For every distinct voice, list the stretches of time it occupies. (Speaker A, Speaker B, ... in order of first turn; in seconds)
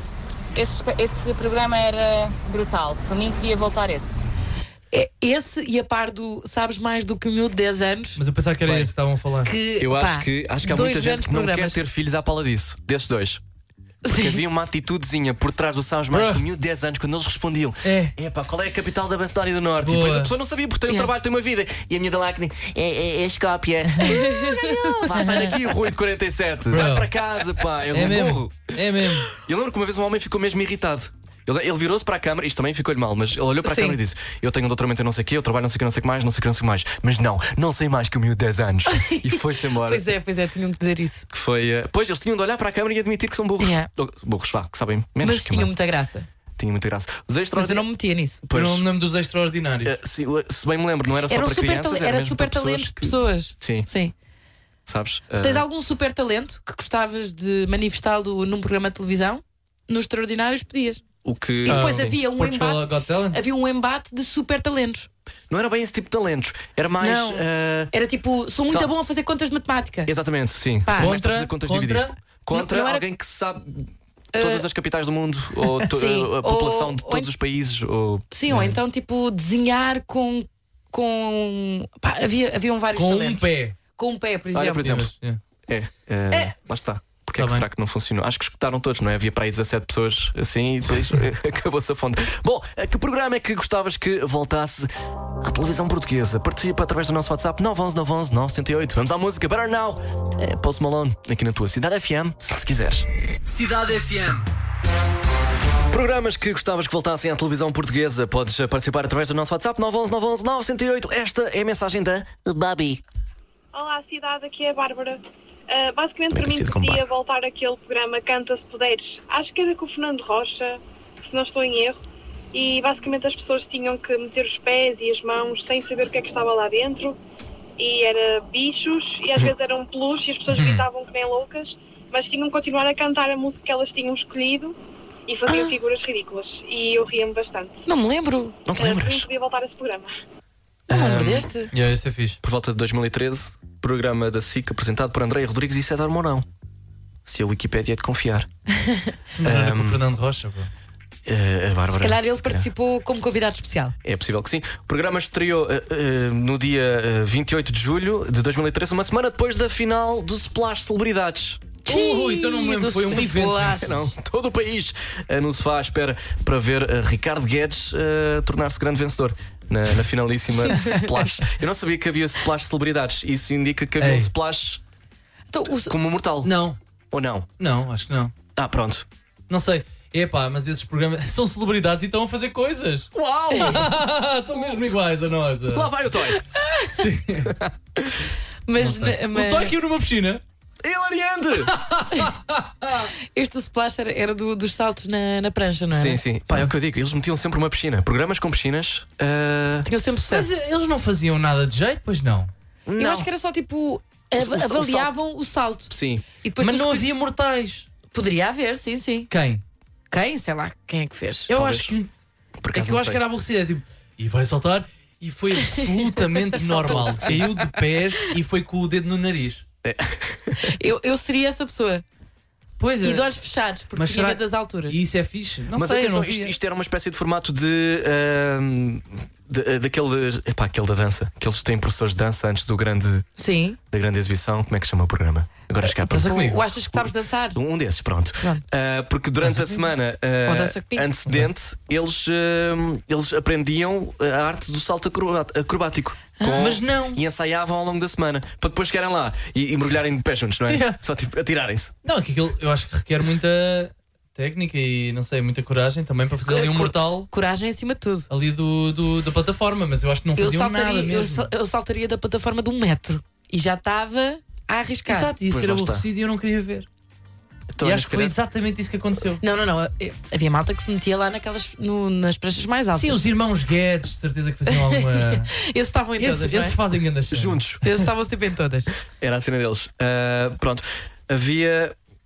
Speaker A: 0.5-4.3
Speaker B: 4.9-8.2, 9.4-11.8, 14.1-14.4, 24.1-25.5, 33.6-34.0, 38.9-41.3, 43.6-43.9, 45.2-46.3, 47.5-48.4, 51.3-54.1, 55.4-61.0, 61.6-65.1, 67.0-70.1, 70.8-71.1, 72.5-73.0, 74.3-74.7, 75.9-77.3, 78.3-85.0, 135.5-135.8, 137.9-138.6, 140.9-141.7, 148.8-149.1, 152.0-153.9, 161.9-164.1, 170.7-171.1, 175.5-175.9, 186.6-186.9, 188.7-189.7, 193.3-196.2, 199.8-200.5, 203.0-205.9, 206.4-207.1, 208.1-209.3, 210.1-211.5, 215.7-217.5, 220.6-222.0, 223.0-225.0, 233.4-233.8, 235.8-237.6, 240.5-241.1, 246.4-246.7, 256.5-258.3, 260.4-265.3, 269.4-273.2, 274.7-276.8, 277.8-278.9
Speaker C: 8.2-9.5, 16.1-16.5, 17.8-18.1, 19.8-20.3, 26.7-27.1, 27.9-29.3, 48.5-50.0, 61.7-63.4, 70.9-72.2, 78.5-78.8, 83.0-83.8, 84.8-85.4, 87.4-87.7, 103.5-104.5, 130.5-130.9, 141.7-142.4, 149.4-150.7, 161.8-164.0, 174.0-174.3, 176.4-176.8, 177.6-178.3, 179.5-185.9, 186.9-187.6, 188.8-190.4, 191.7-193.1, 200.3-202.5, 206.6-207.9, 209.3-209.6, 211.5-212.1, 212.7-219.6, 222.8-223.3, 223.9-226.6, 236.1-236.7, 239.4-239.8, 246.5-247.2, 250.7-251.0, 252.1-257.3, 258.3-261.5, 265.1-266.9, 267.8-269.4, 272.9-275.5, 276.2-278.1
Speaker D: 8.7-8.9, 9.8-13.4, 14.1-28.7, 29.3-40.1, 41.3-45.7, 46.6-47.9, 48.4-48.9, 49.8-53.9, 54.9-55.7, 61.2-62.1, 65.5-67.9, 70.1-78.3, 84.5-85.1, 85.7-103.1, 105.9-113.0, 116.3-117.0, 138.7-139.3, 140.9-141.5, 142.4-146.5, 147.3-148.5, 149.4-150.0, 151.3-152.7, 154.0-161.8, 163.8-174.8, 175.7-176.5, 177.1-177.5, 178.6-179.1, 183.1-183.9, 185.7-186.4, 187.5-188.2, 190.8-191.7, 195.9-199.9, 202.9-203.3, 204.4-205.1, 205.9-206.2, 211.5-211.9, 212.6-213.2, 216.8-217.4, 219.8-220.7, 225.8-233.3, 233.9-236.4, 237.5-251.9, 265.5-266.1, 267.7-268.4, 277.3-277.8, 279.2-282.0
Speaker E: 113.7-122.0, 122.5-127.2, 127.8-134.8, 135.3-137.8, 138.7-140.1